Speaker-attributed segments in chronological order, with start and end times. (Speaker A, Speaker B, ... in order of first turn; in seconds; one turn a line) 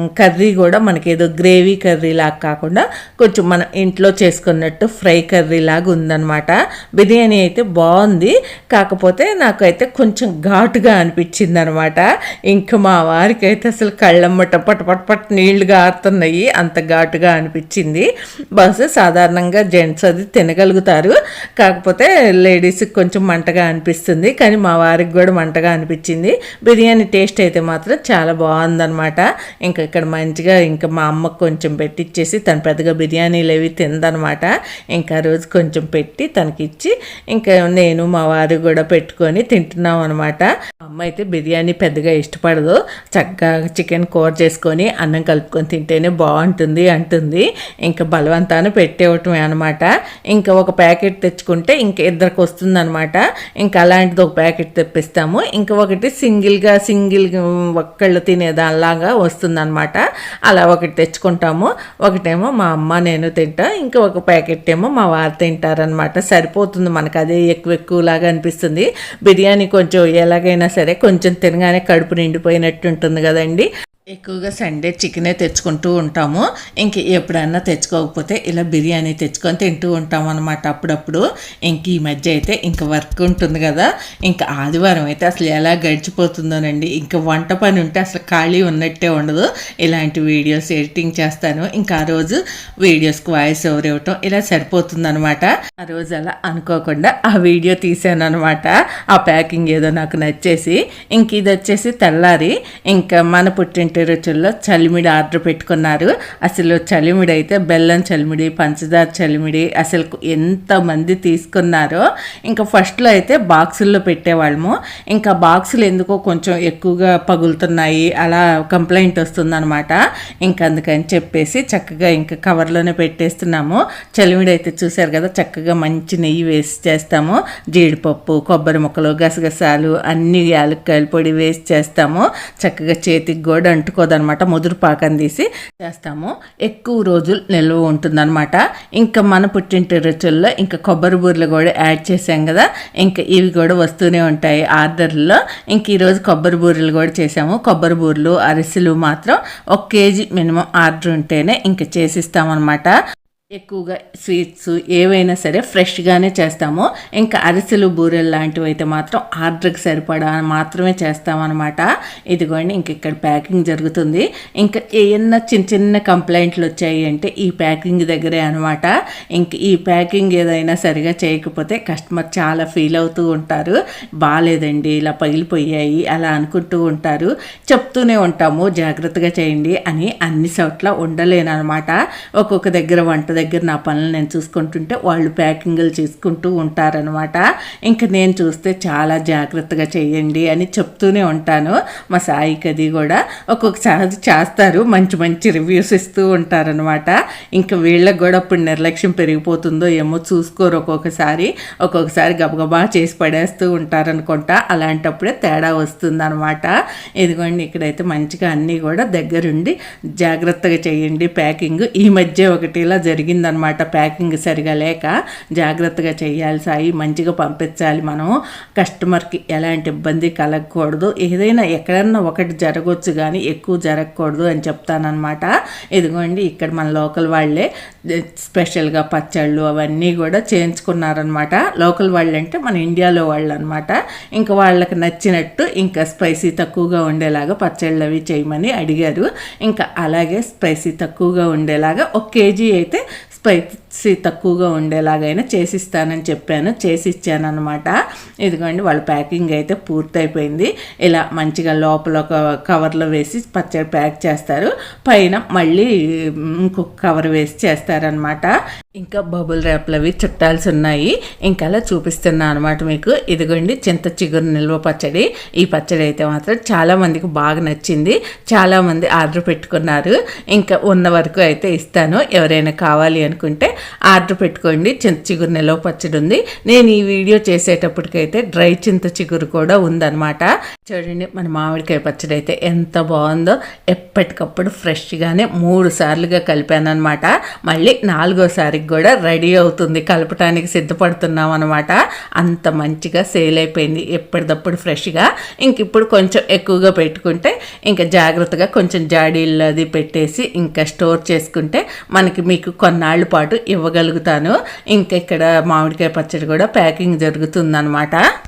Speaker A: 0.2-152.9
Speaker A: 153.6-227.7
Speaker A: 228.4-247.9
Speaker A: 248.4-255.9
Speaker A: 256.5-308.2